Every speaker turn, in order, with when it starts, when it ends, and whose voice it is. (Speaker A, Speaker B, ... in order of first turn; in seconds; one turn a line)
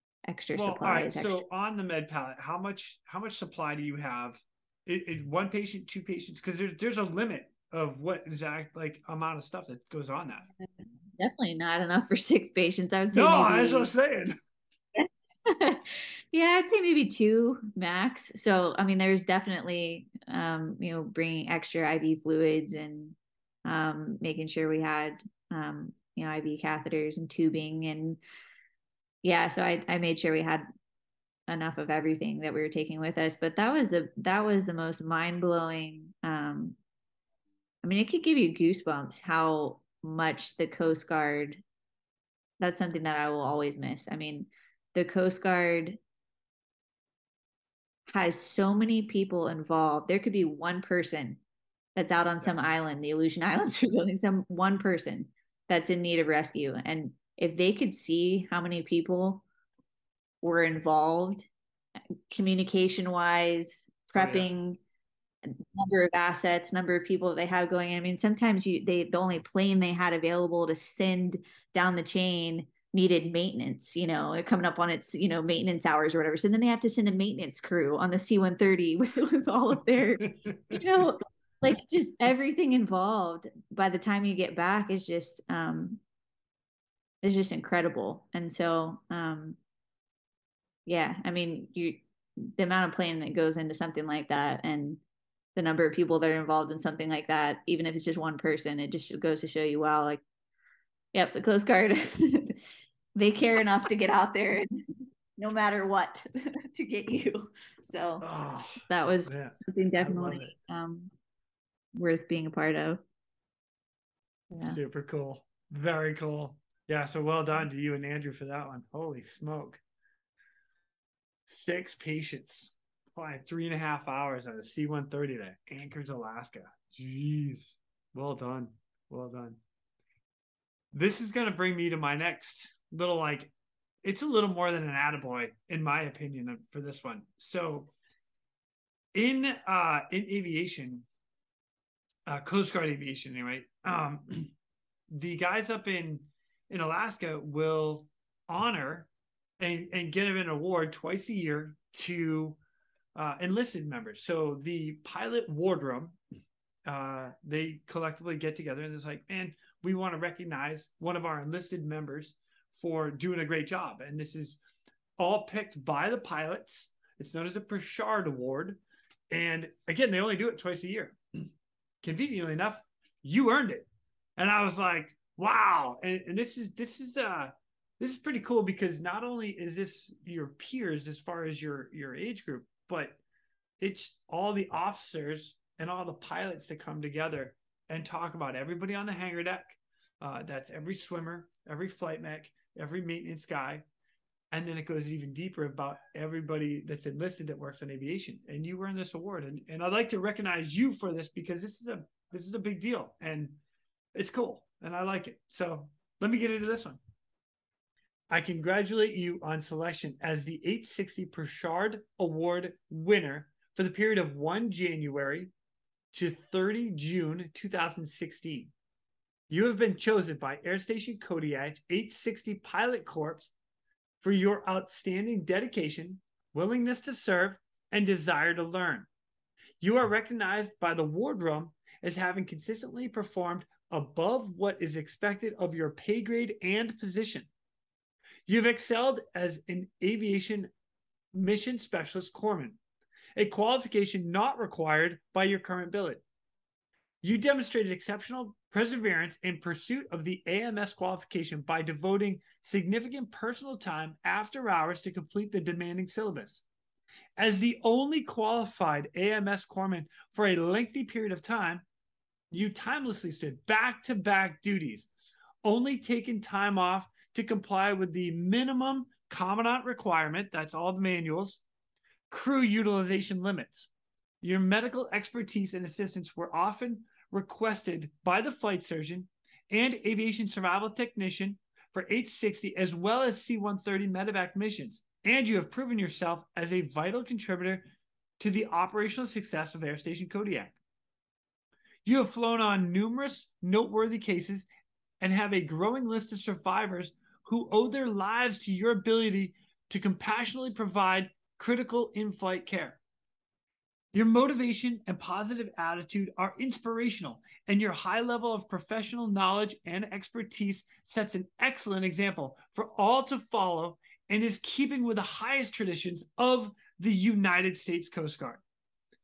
Speaker A: 0.3-1.4
Speaker B: 0.5-10.5
Speaker A: 11.2-13.9
Speaker B: 13.1-14.3
Speaker A: 14.9-28.2
Speaker A: 29.2-30.6
Speaker A: 31.5-36.8
Speaker A: 37.8-41.6
Speaker A: 42.6-46.0
Speaker A: 48.1-51.4
Speaker A: 52.0-59.4
Speaker A: 60.4-61.5
Speaker A: 62.3-64.8
Speaker B: 64.2-64.5
Speaker A: 65.4-86.0
Speaker B: 80.4-81.1
Speaker A: 87.2-89.6
Speaker A: 90.8-92.0
Speaker A: 92.6-95.0
Speaker A: 95.5-100.2
Speaker A: 101.1-102.6
Speaker A: 103.2-104.7
Speaker A: 105.3-108.2
Speaker B: 108.2-110.5
Speaker A: 108.9-111.1
Speaker A: 111.9-113.0
Speaker A: 114.5-114.8
Speaker B: 114.6-119.8
Speaker B: 121.5-129.6
Speaker B: 130.9-133.5
Speaker B: 134.0-137.9
Speaker B: 139.1-141.1
Speaker B: 142.2-144.5
Speaker B: 145.1-152.6
Speaker B: 153.2-156.2
Speaker B: 156.8-164.6
Speaker B: 165.2-171.5
Speaker B: 172.0-183.2
Speaker B: 183.8-193.8
Speaker B: 194.5-203.6
Speaker B: 204.1-207.0
Speaker B: 208.3-215.5
Speaker B: 216.1-218.7
Speaker B: 219.5-223.5
Speaker B: 224.2-229.1
Speaker B: 229.8-237.5
Speaker B: 238.4-240.7
Speaker B: 241.3-242.8
Speaker B: 243.3-246.2
Speaker B: 247.2-256.6
Speaker B: 257.4-261.8
Speaker B: 262.5-265.1
Speaker B: 265.6-271.6
Speaker B: 272.3-273.9
Speaker B: 274.4-287.8
Speaker B: 288.4-290.7
Speaker B: 292.0-294.7
Speaker B: 295.2-303.0
Speaker B: 304.1-318.6